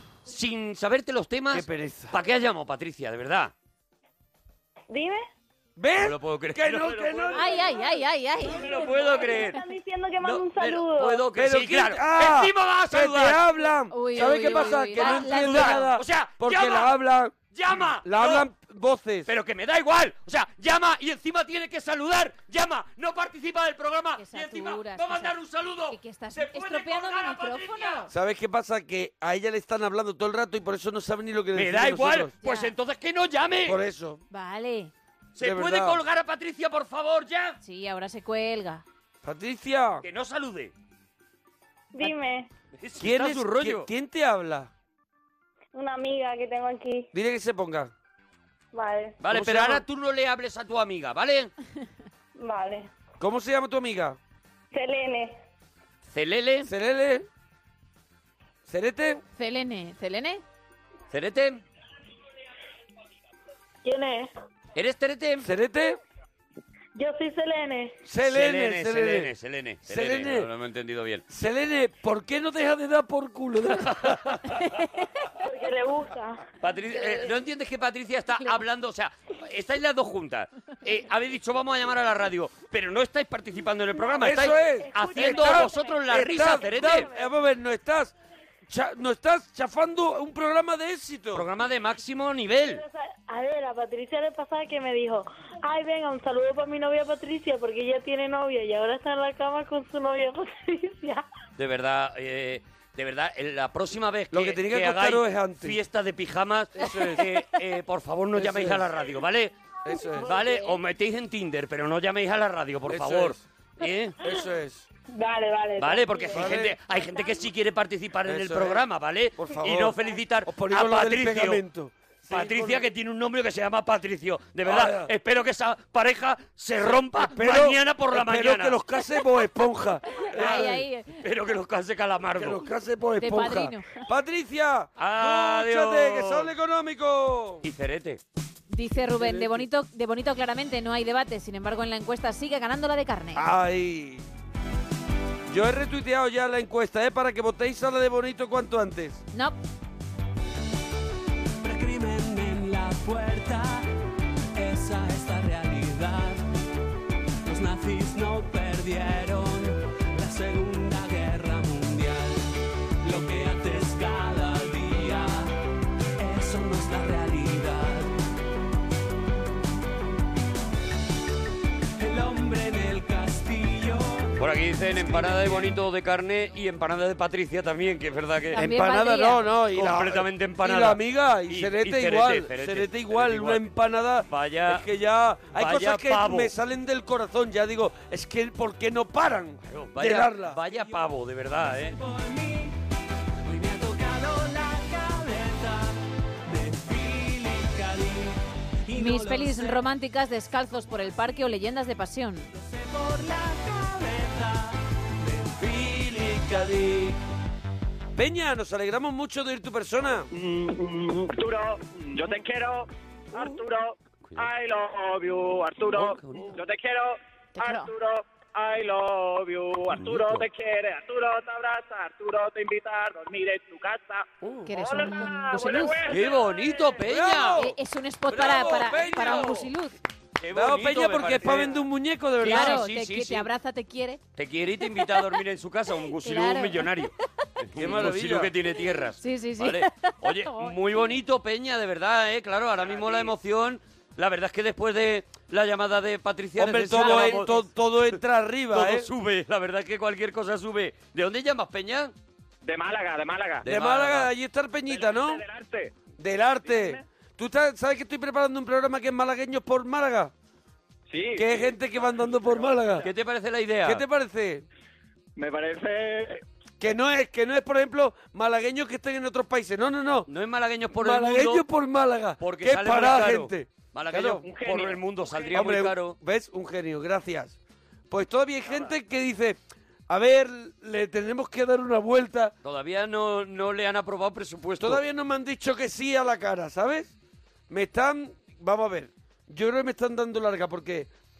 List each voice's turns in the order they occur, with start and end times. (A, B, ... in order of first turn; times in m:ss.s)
0:00.2-0:03.5 A
0:01.5-0:02.2 B
0:04.9-0:05.2 C
0:05.8-0:07.6 B
0:06.0-0:07.3 A
0:07.3-0:08.8 D
0:08.4-0:11.2 C
0:08.5-0:09.6 A
0:10.2-0:13.4 A
0:11.3-0:17.4 B
0:13.9-0:15.9 D
0:14.3-0:16.9 A
0:17.5-0:18.5 A
0:17.9-0:19.3 B
0:19.3-0:28.1 A
0:24.2-0:25.3 D
0:25.9-0:28.1 D
0:28.1-0:32.3 B
0:31.5-0:33.8 A
0:32.4-0:32.7 D
0:33.6-0:34.2 B
0:34.3-0:34.9 D
0:35.3-0:37.6 A
0:35.4-0:36.0 B
0:37.6-0:38.8 D
0:39.2-0:40.0 B
0:40.0-0:40.7 A
0:41.9-0:42.5 C
0:42.8-0:43.9 A
0:43.0-0:44.7 B
0:45.7-0:47.1 C
0:47.1-0:47.9 B
0:48.7-0:49.2 C
0:49.2-0:51.5 A
0:49.2-0:49.8 B
0:52.4-0:52.9 C
0:53.2-0:54.2 B
0:54.7-0:55.4 C
0:56.1-0:56.7 A
0:56.6-0:57.3 B
0:58.6-0:59.2 B
0:59.4-1:00.4 D
1:01.1-1:01.6 A
1:03.8-1:04.3 C
1:04.7-1:05.5 A
1:05.4-1:06.0 B
1:06.9-1:08.0 C
1:08.0-1:09.3 B
1:08.2-1:11.2 A
1:09.9-1:10.5 B
1:11.3-1:14.3 B
1:13.7-1:14.6 A
1:15.4-1:16.4 C
1:16.6-1:27.1 A
1:24.2-1:28.1 B
1:24.5-1:27.3 C
1:28.7-1:31.4 B
1:31.3-1:32.8 A
1:32.6-1:41.2 C
1:41.6-1:49.5 A
1:44.3-1:45.8 B
1:46.7-1:47.3 B
1:48.3-1:48.9 B
1:49.8-1:50.3 B
1:50.1-1:50.8 C
1:50.2-1:54.2 A
1:52.9-1:53.4 B
1:54.2-1:54.8 B
1:55.1-1:56.4 C
1:55.8-2:01.6 A
1:56.3-1:56.8 B
1:58.2-1:58.8 B
1:59.4-2:02.8 B
2:02.3-2:08.8 A
2:04.6-2:05.1 B
2:07.1-2:10.8 B
2:10.3-2:11.2 D
2:10.3-2:10.7 A
2:11.2-2:12.6 A
2:12.4-2:17.6 B
2:13.2-2:14.0 D
2:15.0-2:16.5 A
2:17.6-2:18.2 A
2:18.7-2:23.5 D
2:19.1-2:19.6 B
2:23.3-2:24.2 B
2:25.5-2:29.2 B
2:29.3-2:29.6 D
2:31.6-2:33.9 E
2:34.5-2:36.4 E
2:37.4-2:42.4 E
2:43.0-2:45.5 E
2:46.2-2:48.1 E
2:52.0-2:54.4 E
2:54.4-2:58.6 A
2:58.5-2:59.4 D
2:58.5-3:10.6 B
2:59.7-3:03.7 A
3:04.3-3:04.8 A
3:05.6-3:06.5 A
3:09.6-3:12.0 A
3:11.7-3:12.7 E
3:13.4-3:19.9 E
3:18.9-3:22.5 D
3:22.5-3:27.2 E
3:28.2-3:30.3 B
3:30.5-3:47.0 F
3:35.9-3:36.5 A
3:37.6-3:37.9 D
3:39.9-3:40.5 A
3:44.6-3:46.0 D
3:46.1-3:47.6 A
3:46.2-3:47.7 B
3:47.6-3:50.0 D
3:48.3-3:49.7 B
3:50.4-3:51.8 A
3:50.5-3:52.8 B
3:52.4-3:53.5 A
3:52.4-3:54.2 D
3:54.4-4:07.6 A
3:56.2-3:57.0 D
3:57.7-3:58.5 B
3:59.2-4:00.8 D
4:06.6-4:09.1 B
4:07.0-4:07.7 D
4:08.7-4:12.1 A
4:12.6-4:13.7 F
4:13.6-4:14.3 A
4:13.6-4:15.4 B
4:14.9-4:16.0 F
4:16.2-4:20.3 B
4:16.6-4:17.0 F
4:21.1-4:23.0 F
4:21.4-4:23.1 B
4:23.0-4:24.0 A
4:23.8-4:24.6 B
4:25.4-4:26.4 F
4:26.8-4:30.3 B
4:30.3-4:31.6 A
4:30.9-4:34.4 B
4:32.4-4:36.2 A
4:34.4-4:35.5 F
4:35.5-4:37.6 B
4:38.1-4:42.5 B
4:42.6-4:45.0 A
4:44.8-4:47.1 B
4:47.7-4:51.1 B